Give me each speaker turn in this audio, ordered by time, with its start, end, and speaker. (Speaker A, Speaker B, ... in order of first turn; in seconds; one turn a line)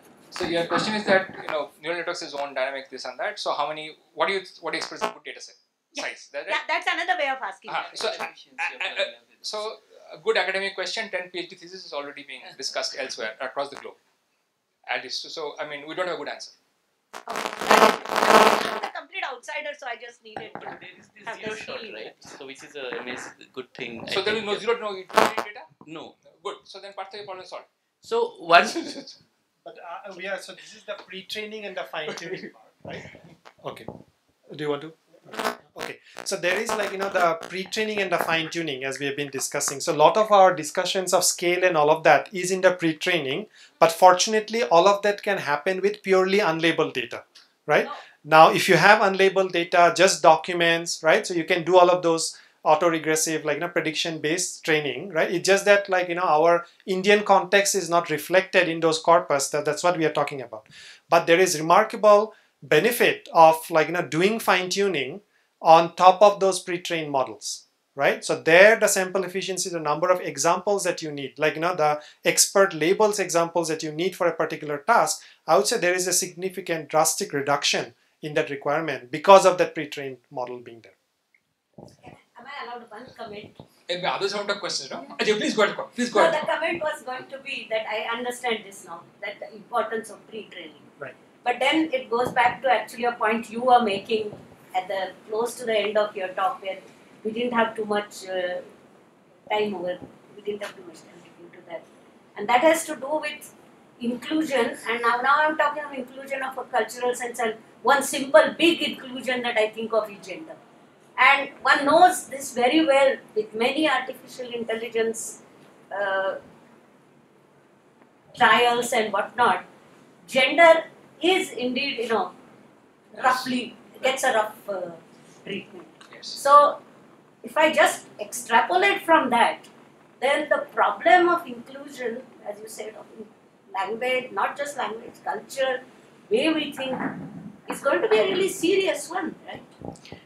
Speaker A: 0.3-6.6
Speaker B: 6.0-7.9
Speaker A: 7.7-14.0
Speaker C: 7.9-9.4
Speaker A: 14.9-16.6
Speaker B: 17.3-22.1
Speaker C: 20.4-24.6
Speaker A: 24.1-25.7
Speaker C: 25.9-26.1
Speaker A: 26.3-27.7
Speaker C: 28.0-28.8
Speaker A: 28.6-29.2
Speaker D: 29.6-33.1
Speaker D: 33.6-33.9
Speaker D: 34.5-81.0
Speaker B: 82.0-83.5
Speaker A: 83.9-86.5
Speaker B: 86.1-90.9
Speaker B: 91.4-98.7
Speaker B: 99.5-101.8
Speaker B: 102.4-110.6
Speaker B: 111.2-115.4
Speaker B: 115.9-116.4
Speaker B: 118.3-119.7
Speaker B: 120.3-122.3
Speaker B: 123.1-126.8
Speaker A: 123.2-123.5
Speaker A: 126.1-126.4
Speaker B: 127.4-129.7
Speaker B: 130.2-139.7